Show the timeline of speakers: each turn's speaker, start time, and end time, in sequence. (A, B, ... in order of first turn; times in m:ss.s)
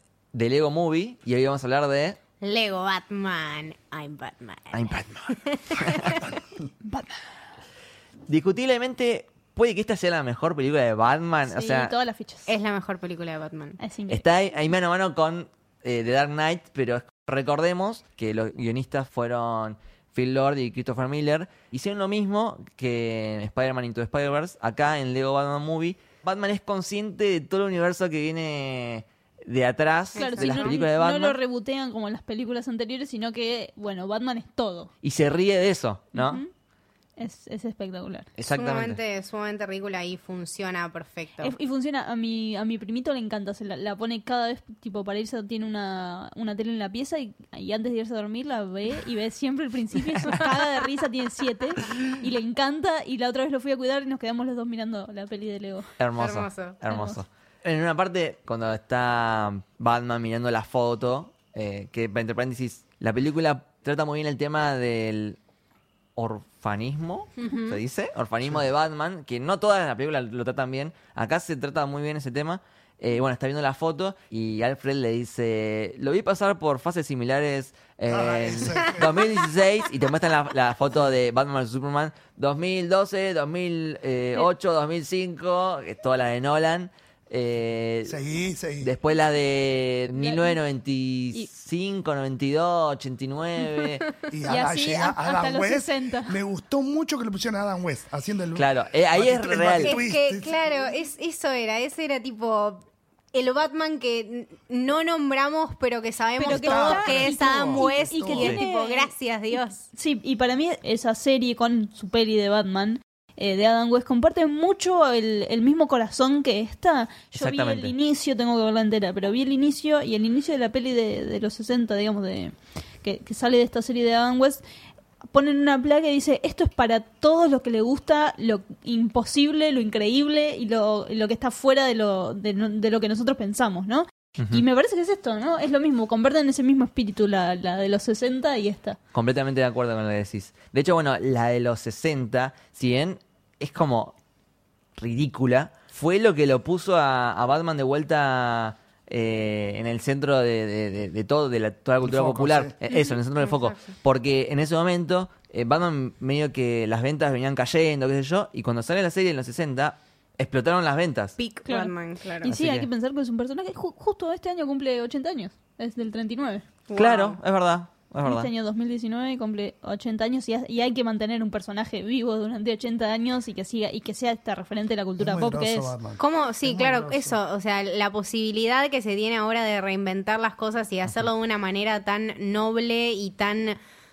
0:00.3-0:02.2 A
0:02.4-0:06.3 B
0:04.7-0:06.2 A
0:06.8-0:07.1 C
0:08.3-0:11.9 A
0:11.5-0:12.5 C
0:12.5-0:13.8 B
0:13.8-0:14.2 C
0:14.1-0:31.4 A
0:30.1-0:30.8 B
0:30.1-0:34.9 C
0:35.0-0:36.4 A
0:36.1-0:36.5 C
0:37.2-0:38.3 C
0:38.4-0:39.0 A
0:38.5-0:41.5 B
0:41.4-0:55.9 C
0:56.0-1:05.4 A
0:56.2-0:56.8 B
0:56.8-0:57.2 C
1:06.2-1:28.2 A
1:07.4-1:07.8 B
1:18.1-1:19.2 D
1:28.0-1:28.9 D
1:28.8-1:34.1 A
1:30.2-1:30.6 C
1:34.3-1:40.5 D
1:34.5-1:36.4 C
1:38.5-1:40.0 A
1:39.8-1:49.8 B
1:46.4-2:04.6 C
1:46.4-1:48.5 D
1:57.3-1:57.9 A
2:05.3-2:19.0 C
2:14.4-2:14.6 A
2:19.1-2:24.2 A
2:25.0-2:41.4 A
2:32.0-2:32.7 D
2:32.9-2:33.9 B
2:41.4-2:42.5 B
2:41.6-2:46.6 C
2:42.4-2:42.9 A
2:46.9-2:47.4 B
2:46.9-2:48.5 A
2:48.2-2:55.9 C
2:55.2-2:57.4 D
2:56.2-3:03.8 B